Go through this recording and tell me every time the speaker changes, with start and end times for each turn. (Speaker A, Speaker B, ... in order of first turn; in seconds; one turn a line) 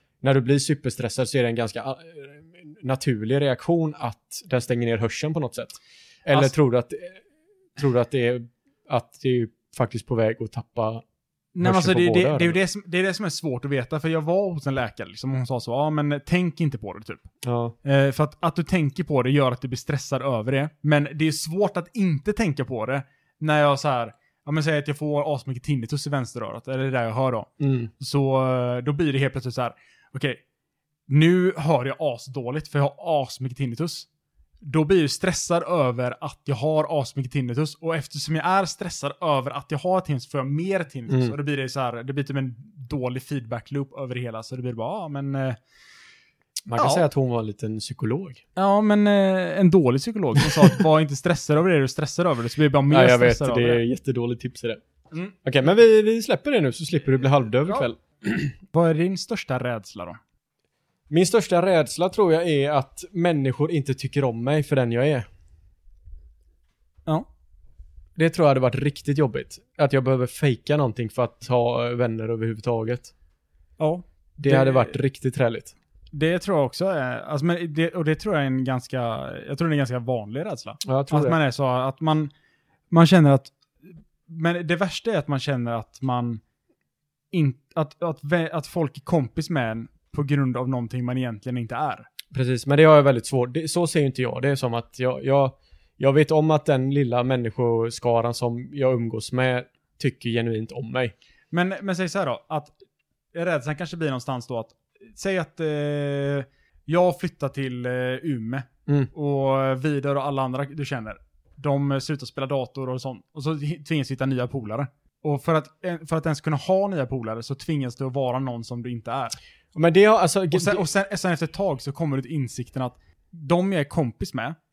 Speaker A: 0.2-7.2
Speaker A: 7.8-11.0
Speaker B: 11.5-17.2
Speaker A: 11.6-12.6
Speaker A: 17.4-17.7
Speaker B: 17.8-30.4
Speaker A: 27.6-27.9
Speaker B: 31.1-34.1
Speaker B: 34.6-45.6
Speaker A: 41.1-41.3
Speaker A: 46.7-48.4
Speaker B: 46.8-47.0
Speaker B: 48.5-53.8
Speaker A: 50.4-50.7
Speaker A: 52.9-54.8
Speaker A: 55.4-58.0
Speaker B: 58.7-60.2
Speaker A: 61.1-65.3
Speaker A: 68.2-73.1
Speaker B: 73.8-74.9
Speaker A: 74.4-75.7
Speaker B: 76.1-82.3
Speaker A: 80.8-81.4
Speaker B: 82.9-83.5
Speaker B: 84.3-86.4
Speaker B: 87.3-92.1
Speaker A: 92.3-101.1
Speaker B: 101.5-102.7
Speaker B: 103.3-119.4
Speaker A: 119.7-120.8
Speaker B: 120.5-124.5